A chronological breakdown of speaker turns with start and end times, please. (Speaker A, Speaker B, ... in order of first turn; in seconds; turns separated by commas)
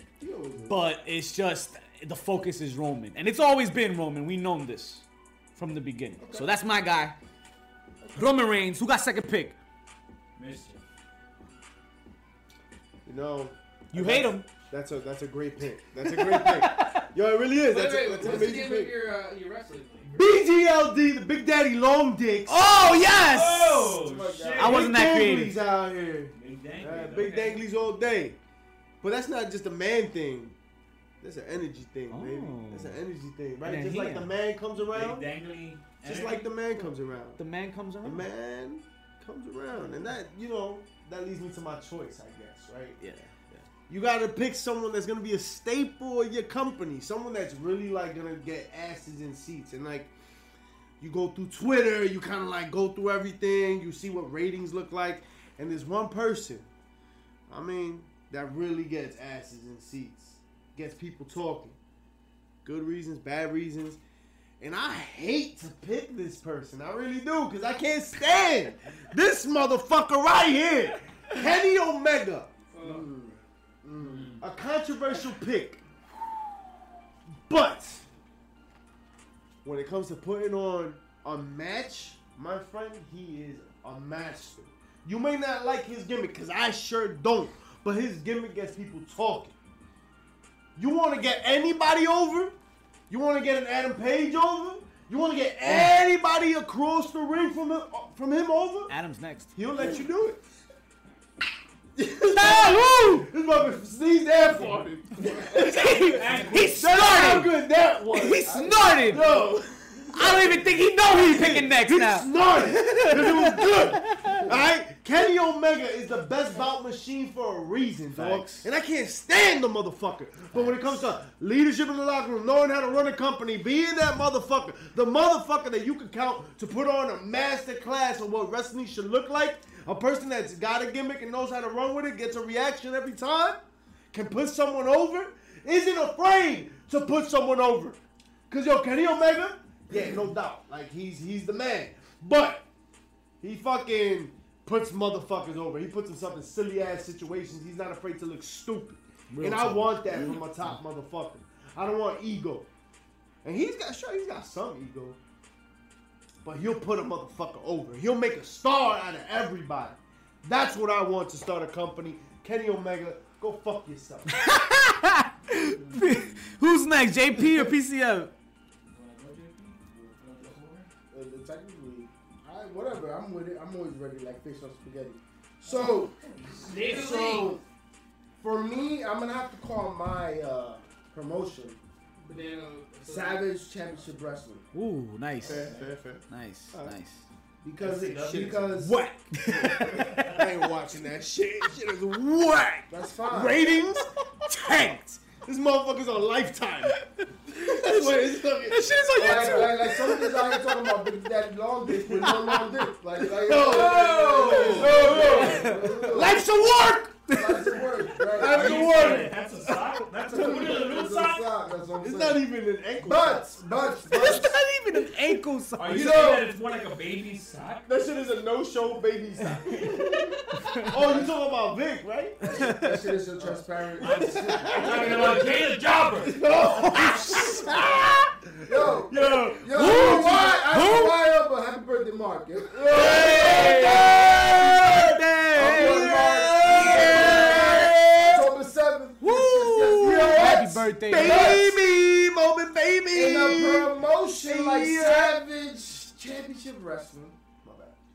Speaker A: 0.2-0.8, Speaker B: 0.7-7.2, Speaker A: 6.2-6.5, Speaker B: 8.1-9.6, Speaker C: 10.3-10.8, Speaker D: 13.0-18.9, Speaker B: 13.9-14.5, Speaker B: 16.0-17.1, Speaker E: 17.6-20.1, Speaker D: 20.1-22.9, Speaker B: 22.5-24.0, Speaker C: 23.0-24.9, Speaker A: 24.0-24.7, Speaker D: 24.4-28.4, Speaker B: 24.6-25.6, Speaker C: 26.3-27.6, Speaker D: 29.0-30.6, Speaker D: 31.2-35.3, Speaker B: 32.1-33.0, Speaker B: 33.6-34.3, Speaker C: 34.9-36.5, Speaker D: 36.0-37.4, Speaker B: 37.4-38.2, Speaker D: 38.0-43.0, Speaker B: 43.0-43.6, Speaker D: 43.9-50.1, Speaker D: 51.0-56.7, Speaker D: 57.5-61.8, Speaker D: 62.6-64.0, Speaker D: 64.6-72.5, Speaker E: 72.7-73.2, Speaker A: 72.8-74.4, Speaker C: 74.0-74.4, Speaker D: 74.4-75.8, Speaker D: 77.5-78.0, Speaker D: 79.6-89.5, Speaker D: 90.8-92.5, Speaker D: 93.1-98.9, Speaker B: 98.9-99.5, Speaker D: 99.5-100.4, Speaker D: 102.0-138.0, Speaker B: 102.3-103.3, Speaker B: 105.4-107.6, Speaker C: 106.1-107.1, Speaker B: 108.1-109.3, Speaker A: 108.4-109.5, Speaker B: 110.1-114.5, Speaker B: 118.1-118.7, Speaker B: 120.5-121.0, Speaker D: 138.5-142.7, Speaker D: 143.4-152.7, Speaker B: 149.3-150.4, Speaker D: 153.4-155.2, Speaker D: 156.4-164.4, Speaker B: 164.3-168.3, Speaker C: 168.9-170.9, Speaker A: 171.1-176.2, Speaker E: 176.6-177.6, Speaker A: 176.8-177.6, Speaker A: 178.4-181.8, Speaker E: 182.2-183.5, Speaker A: 183.0-184.6, Speaker B: 184.7-185.7, Speaker C: 185.4-185.9, Speaker D: 185.4-186.9, Speaker B: 186.3-187.2, Speaker A: 187.6-189.0, Speaker C: 187.8-188.7, Speaker B: 188.8-190.4, Speaker D: 189.5-196.9, Speaker A: 192.9-193.6, Speaker B: 194.4-195.2, Speaker B: 196.9-200.6, Speaker D: 197.5-199.9, Speaker A: 199.2-206.4, Speaker D: 202.1-202.6, Speaker D: 203.2-206.4, Speaker C: 203.6-205.6, Speaker B: 204.5-208.2, Speaker A: 207.3-209.3, Speaker D: 208.2-210.8, Speaker C: 208.4-211.5, Speaker A: 210.2-212.4, Speaker D: 212.0-213.6, Speaker A: 213.0-214.6, Speaker B: 214.0-216.3, Speaker C: 215.8-217.9, Speaker A: 215.9-216.4, Speaker D: 217.8-222.8, Speaker B: 220.5-220.9, Speaker A: 220.9-221.3, Speaker A: 222.4-225.5, Speaker B: 222.5-223.1, Speaker C: 224.0-226.4, Speaker D: 224.0-225.6, Speaker D: 226.2-228.2, Speaker B: 226.8-228.2, Speaker A: 228.6-233.4, Speaker D: 228.7-230.6, Speaker B: 229.7-231.2, Speaker D: 232.7-238.5, Speaker B: 232.9-238.3, Speaker A: 235.5-241.8, Speaker B: 239.2-241.7, Speaker D: 239.8-245.4, Speaker A: 243.1-247.6, Speaker D: 247.6-247.9